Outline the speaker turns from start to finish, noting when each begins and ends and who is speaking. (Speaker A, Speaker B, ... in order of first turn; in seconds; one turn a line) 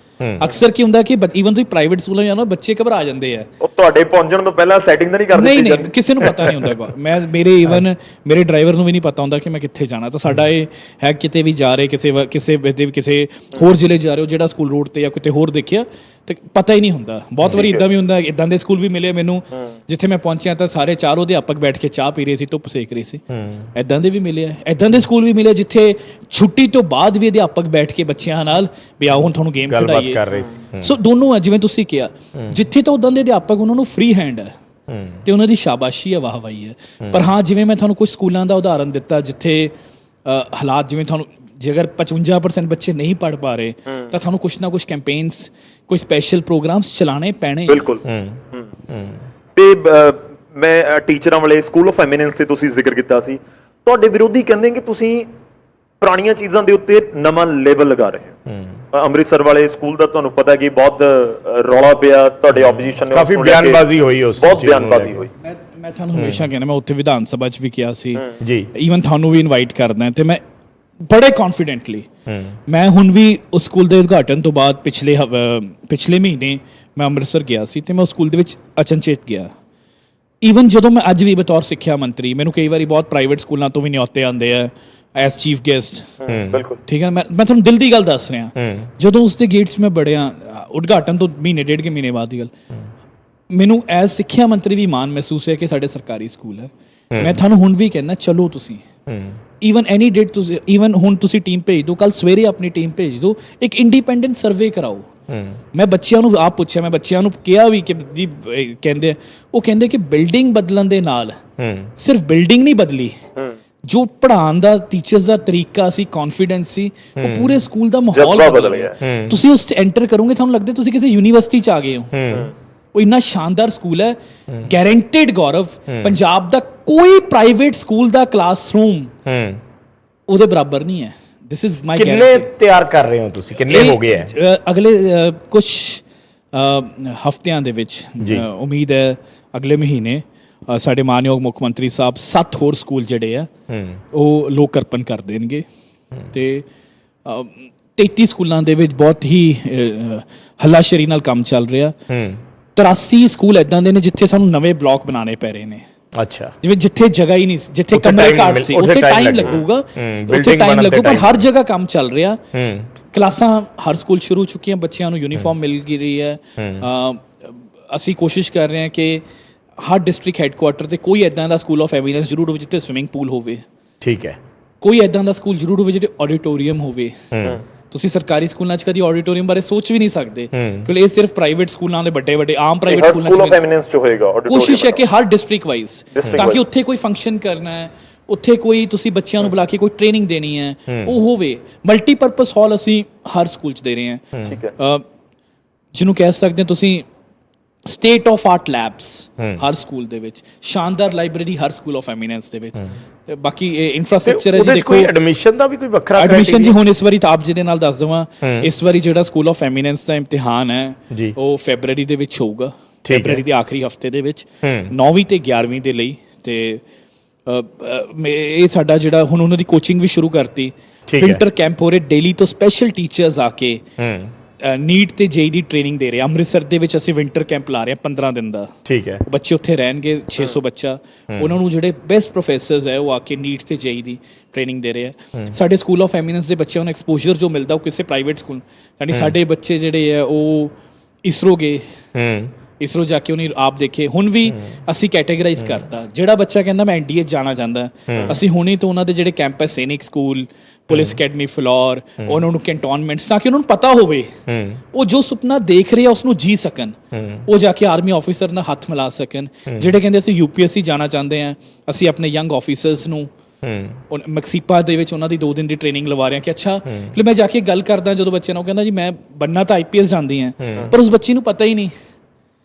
Speaker A: 0.2-0.5
Speaker B: 0.4-3.5
Speaker C: 3.6-6.7
Speaker B: 5.3-23.2
Speaker C: 17.5-17.9
Speaker A: 23.3-23.7
Speaker B: 23.8-30.2
Speaker A: 29.7-31.0
Speaker B: 30.8-34.5
Speaker A: 34.9-35.2
Speaker B: 35.2-39.7
Speaker B: 40.3-47.9
Speaker C: 47.7-48.7
Speaker A: 48.0-49.2
Speaker C: 49.5-55.3
Speaker C: 56.0-58.4
Speaker A: 58.5-58.7
Speaker C: 58.9-63.9
Speaker A: 63.1-65.2
Speaker C: 64.4-65.3
Speaker B: 65.4-70.4
Speaker A: 68.4-68.7
Speaker B: 71.1-72.1
Speaker A: 72.3-72.6
Speaker B: 72.7-79.5
Speaker B: 80.4-86.2
Speaker C: 86.2-86.8
Speaker A: 86.3-86.6
Speaker B: 86.9-92.5
Speaker A: 88.6-88.9
Speaker B: 93.5-98.8
Speaker A: 99.1-99.4
Speaker B: 99.6-105.1
Speaker A: 105.3-105.6
Speaker B: 105.7-111.4
Speaker A: 111.6-111.9
Speaker B: 112.0-113.2
Speaker B: 113.9-122.1
Speaker A: 117.2-117.6
Speaker C: 118.1-119.0
Speaker A: 119.0-119.4
Speaker A: 122.1-122.5
Speaker B: 122.9-129.1
Speaker A: 125.9-126.2
Speaker A: 129.3-129.6
Speaker B: 130.3-132.5
Speaker A: 131.9-134.3
Speaker B: 133.7-143.5
Speaker A: 138.2-138.5
Speaker A: 143.7-144.0
Speaker B: 144.1-145.7
Speaker B: 146.3-146.7
Speaker B: 147.2-152.0
Speaker A: 152.1-152.4
Speaker B: 152.8-155.8
Speaker A: 156.2-156.5
Speaker B: 156.6-162.4
Speaker A: 157.9-161.4
Speaker A: 162.5-162.9
Speaker B: 163.1-169.2
Speaker A: 166.6-166.9
Speaker B: 169.8-173.6
Speaker A: 174.0-174.4
Speaker B: 174.8-177.2
Speaker A: 177.3-177.6
Speaker B: 177.9-183.6
Speaker A: 180.5-180.9
Speaker C: 182.9-185.0
Speaker B: 184.5-195.1
Speaker C: 186.1-186.6
Speaker A: 186.2-186.6
Speaker A: 190.9-191.1
Speaker C: 194.5-194.7
Speaker B: 195.9-197.1
Speaker B: 197.8-205.1
Speaker A: 204.2-206.8
Speaker B: 206.2-216.8
Speaker A: 208.4-208.7
Speaker A: 213.0-213.4
Speaker A: 214.6-214.9
Speaker B: 217.5-223.8
Speaker A: 221.1-221.4
Speaker A: 224.0-224.3
Speaker B: 224.6-228.7
Speaker A: 228.8-229.2
Speaker B: 229.3-240.7
Speaker B: 241.3-241.8
Speaker A: 242.2-242.5
Speaker B: 242.8-254.3
Speaker A: 248.1-248.4
Speaker A: 250.9-251.2
Speaker A: 254.5-254.8
Speaker B: 254.9-263.3
Speaker A: 257.1-257.4
Speaker A: 259.7-259.9
Speaker A: 263.6-264.0
Speaker B: 264.1-271.9
Speaker A: 270.6-270.9